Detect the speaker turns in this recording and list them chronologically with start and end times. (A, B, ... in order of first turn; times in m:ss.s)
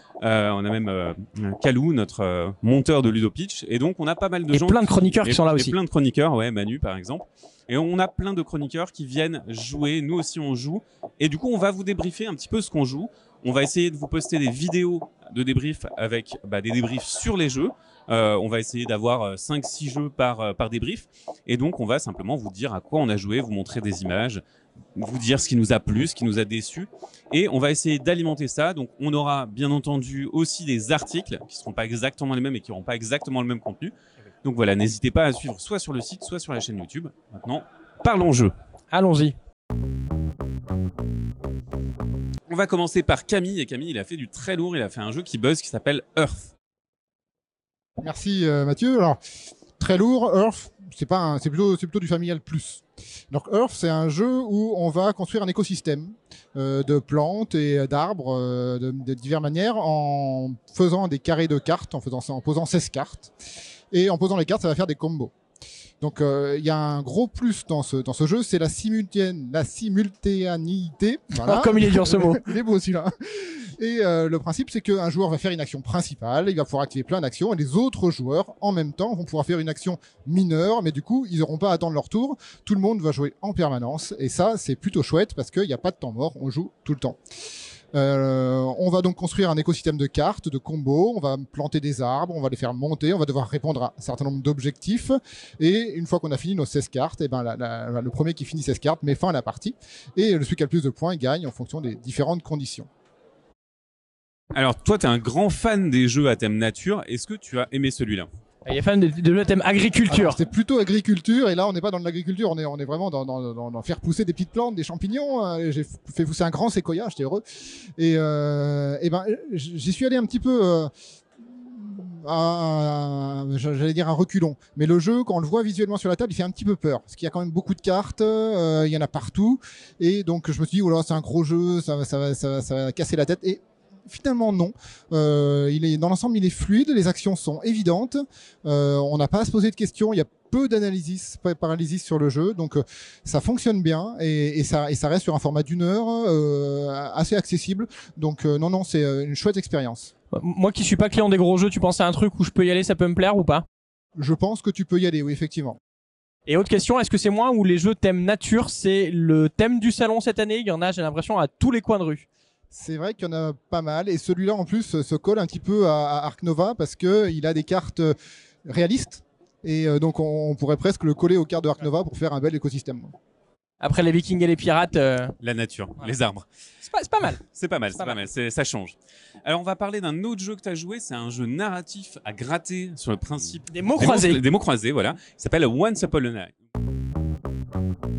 0:00.2-0:24.4 A
0:04.5-0:05.8 B
0:25.0-0:38.5 A
0:38.9-0:39.3 B
0:42.5-0:46.5 A
0:48.0-0:49.2 C
0:49.8-1:03.3 C
1:03.9-1:05.3 C
1:06.0-1:27.2 C
1:11.4-1:12.4 B
1:27.9-1:42.9 C
1:44.5-1:48.3 A
1:48.6-1:50.4 B
1:50.1-1:57.4 C
1:58.0-2:00.9 C
2:01.5-2:30.1 C
2:30.3-2:33.6 B
2:34.2-2:35.8 C
2:36.4-2:42.2 B
2:42.7-2:48.1 C
2:48.7-2:53.1 C
2:53.8-2:55.3 B
2:55.4-2:56.4 A
2:56.8-2:58.2 B
2:57.4-2:58.9 A
2:59.4-3:06.5 A
3:03.7-3:04.4 B